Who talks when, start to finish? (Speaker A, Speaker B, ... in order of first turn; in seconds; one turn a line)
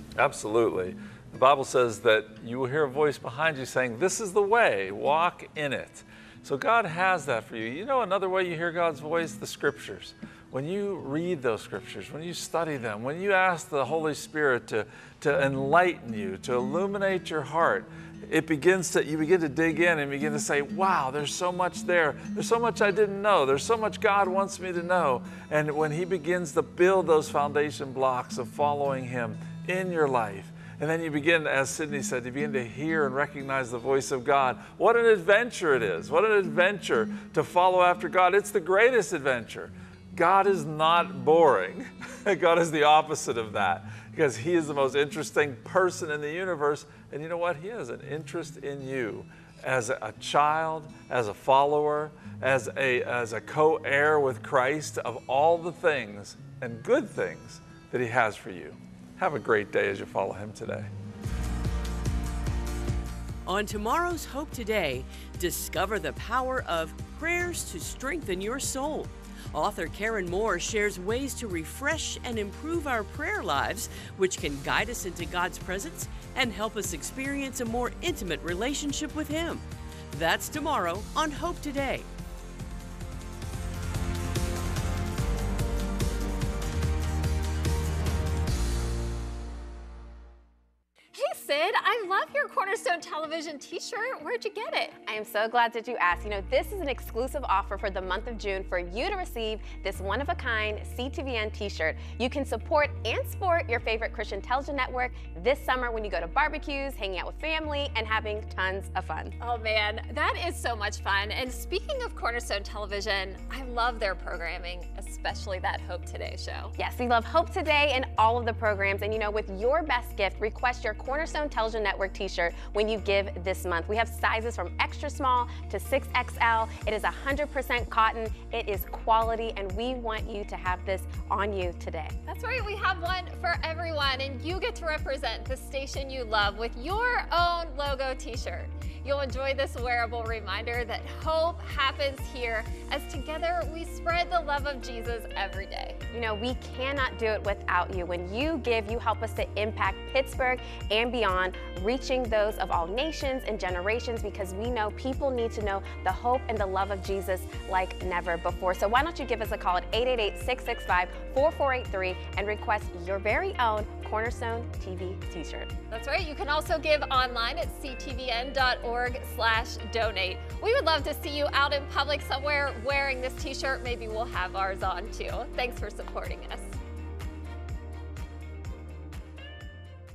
Speaker A: 0.2-60.9
Speaker B: 63.5-82.1
Speaker C: 91.1-95.0
Speaker D: 95.0-109.3
Speaker C: 109.4-116.7
Speaker D: 116.8-132.2
Speaker C: 132.3-146.0
Speaker D: 146.1-165.7
Speaker C: 165.9-176.7